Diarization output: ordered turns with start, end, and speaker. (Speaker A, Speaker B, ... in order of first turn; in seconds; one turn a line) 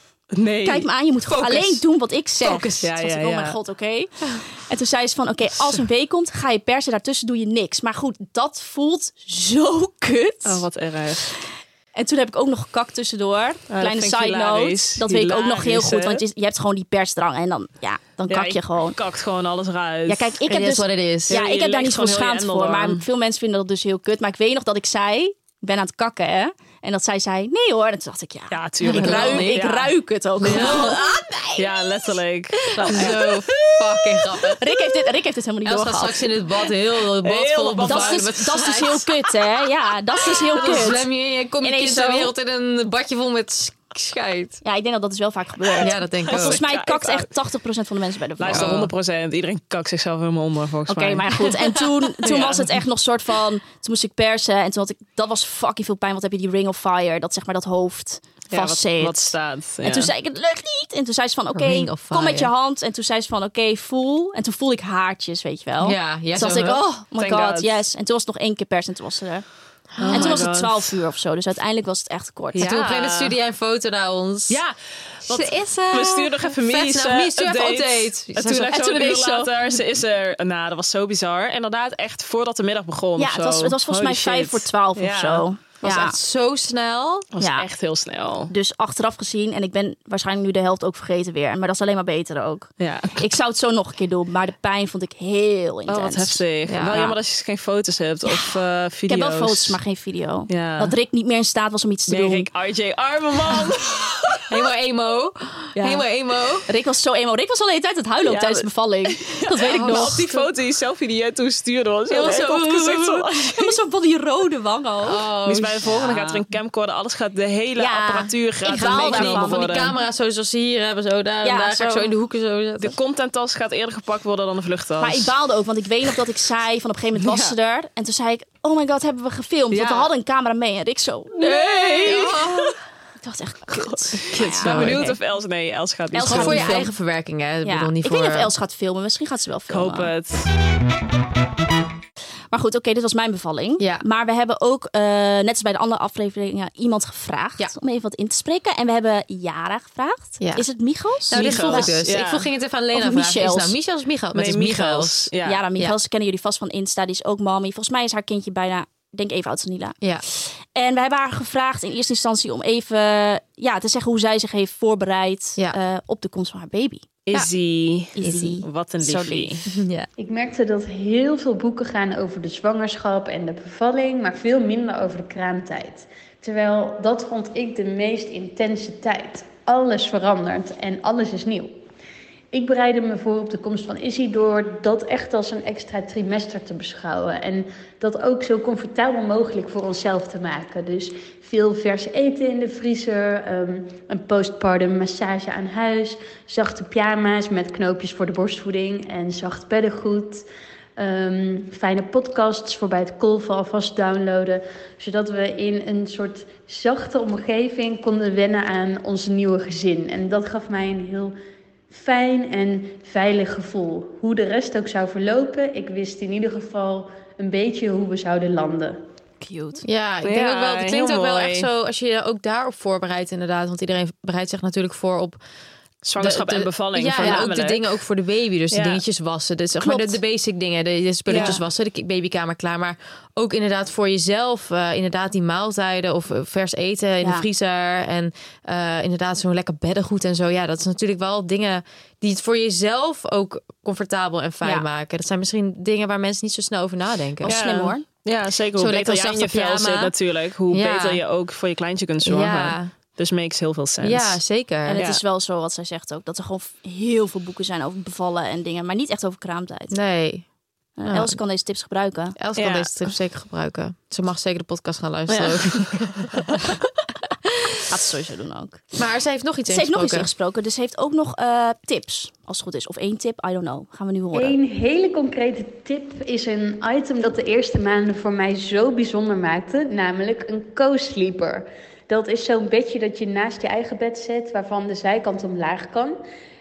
Speaker A: 0.3-0.9
Speaker B: 0.6-10.7
Speaker C: 1.3-1.8
Speaker C: 2.4-3.1
Speaker A: 2.8-3.6
Speaker A: 10.4-11.3
Speaker B: 11.9-19.0
Speaker A: 13.7-16.2
Speaker A: 18.3-20.4
Speaker B: 20.1-31.0
Speaker C: 20.4-21.4
Speaker A: 21.3-23.1
Speaker A: 28.5-29.9
Speaker C: 28.8-29.6
Speaker C: 30.4-31.7
Speaker A: 30.5-31.0
Speaker A: 31.6-34.6
Speaker B: 32.7-33.2
Speaker C: 32.9-34.6
Speaker B: 34.6-36.3
Speaker C: 35.6-39.5
Speaker A: 37.2-38.4
Speaker B: 37.8-41.1
Speaker C: 40.3-44.6
Speaker B: 41.6-42.3
Speaker B: 44.6-48.8
Speaker C: 45.8-46.6
Speaker A: 46.2-47.3
Speaker A: 48.4-52.8
Speaker C: 48.5-48.9
Speaker B: 50.9-69.5
Speaker A: 58.5-60.1
Speaker C: 61.5-62.5
Speaker C: 65.8-66.8
Speaker A: 67.2-67.8
Speaker C: 70.0-70.4
Speaker A: 70.0-71.0
Speaker B: 70.1-72.7
Speaker A: 72.5-73.3
Speaker C: 72.6-74.6
Speaker A: 74.5-85.5
Speaker C: 75.2-78.8
Speaker B: 78.7-79.8
Speaker B: 83.2-86.2
Speaker C: 85.8-87.3
Speaker A: 87.3-88.5
Speaker B: 87.4-87.7
Speaker B: 88.5-97.0
Speaker A: 92.8-93.2
Speaker A: 95.9-99.8
Speaker C: 96.7-97.1
Speaker B: 99.1-102.5
Speaker A: 100.5-101.0
Speaker A: 102.1-104.6
Speaker C: 104.5-106.7
Speaker B: 105.8-106.0
Speaker B: 106.7-110.3
Speaker A: 108.2-113.8
Speaker C: 109.6-110.5
Speaker C: 112.1-113.4
Speaker B: 113.5-115.2
Speaker C: 115.0-116.1
Speaker A: 115.5-119.9
Speaker B: 115.9-116.4
Speaker B: 117.8-119.8
Speaker C: 118.7-123.0
Speaker B: 121.4-122.1
Speaker A: 122.8-125.3
Speaker B: 125.0-132.3
Speaker A: 127.2-127.5
Speaker A: 129.7-130.1
Speaker A: 131.3-132.7
Speaker C: 132.0-132.8
Speaker B: 133.2-135.1
Speaker A: 133.7-136.8
Speaker C: 134.6-135.2
Speaker B: 136.1-136.9
Speaker C: 136.2-138.5
Speaker B: 137.6-140.1
Speaker A: 139.7-140.5
Speaker B: 142.5-151.9
Speaker C: 143.8-144.1
Speaker C: 150.4-150.7
Speaker C: 151.3-156.0
Speaker A: 151.3-152.5
Speaker B: 152.9-153.8
Speaker A: 154.3-155.7
Speaker B: 155.4-167.1
Speaker A: 167.3-169.6
Speaker B: 168.2-169.6
Speaker C: 169.7-170.1
Speaker D: 170.2-181.8
Speaker D: 182.5-200.4
Speaker D: 201.0-211.3
Speaker D: 211.9-219.0
Speaker B: 219.4-219.8
Speaker C: 219.8-225.4
Speaker A: 220.2-221.7
Speaker A: 226.1-228.0
Speaker C: 226.2-247.6
Speaker B: 227.2-227.5
Speaker A: 228.7-229.0
Speaker B: 229.8-230.2
Speaker B: 231.3-231.6
Speaker A: 231.3-231.6
Speaker B: 237.2-237.5
Speaker B: 247.4-248.1
Speaker A: 247.5-254.4
Speaker C: 248.8-250.2
Speaker C: 250.7-251.2
Speaker C: 252.2-252.9
Speaker C: 254.0-255.1
Speaker B: 254.8-259.9
Speaker A: 255.0-255.2
Speaker C: 259.9-260.5
Speaker B: 261.0-262.4
Speaker C: 261.1-261.4
Speaker C: 262.4-266.5
Speaker A: 262.6-263.0
Speaker A: 265.3-266.6
Speaker C: 267.5-267.8
Speaker B: 267.9-268.8
Speaker C: 269.0-270.3
Speaker B: 269.7-274.6
Speaker D: 274.3-286.2